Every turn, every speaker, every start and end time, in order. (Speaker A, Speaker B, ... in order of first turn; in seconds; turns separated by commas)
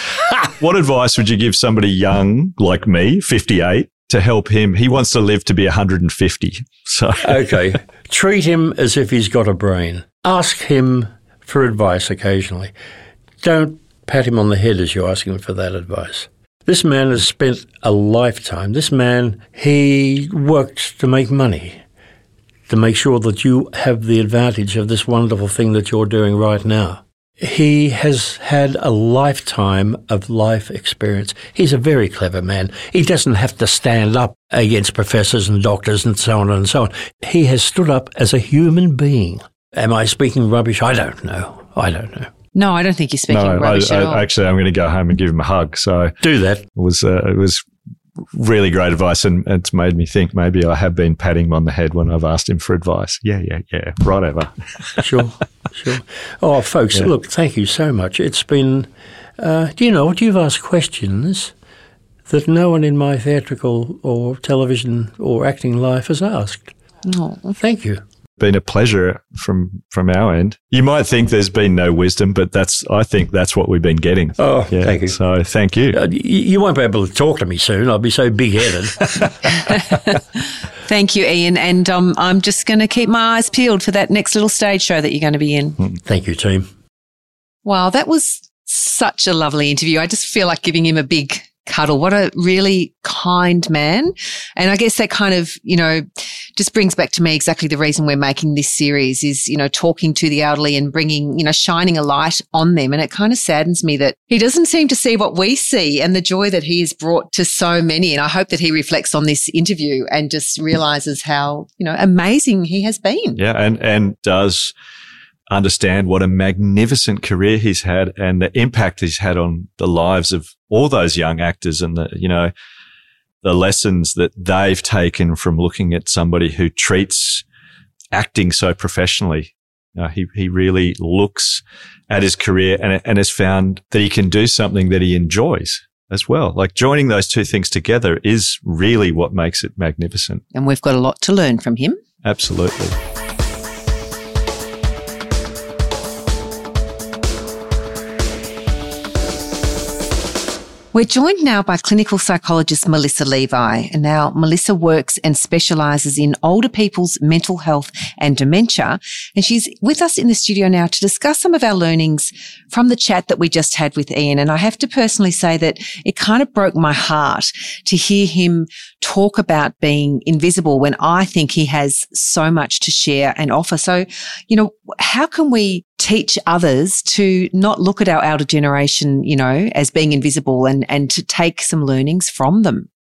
Speaker A: 0.3-7.5, Speaker B: 7.2-12.7, Speaker B: 13.4-21.8, Speaker B: 22.7-42.3, Speaker C: 42.5-44.3, Speaker A: 43.3-46.1, Speaker B: 46.2-46.7, Speaker A: 46.8-47.6, Speaker A: 48.3-55.0, Speaker B: 55.0-61.5, Speaker B: 62.3-66.7, Speaker C: 67.1-67.5, Speaker B: 67.5-68.0, Speaker A: 68.4-76.0, Speaker B: 74.4-75.2, Speaker B: 75.9-79.2, Speaker C: 79.7-80.0, Speaker C: 80.9-85.8, Speaker B: 86.0-86.7, Speaker C: 87.7-113.4, Speaker A: 113.4-114.7, Speaker A: 115.5-122.5, Speaker A: 123.4-127.4, Speaker A: 128.1-140.4, Speaker C: 140.5-142.0, Speaker A: 142.2-142.9, Speaker C: 150.9-182.9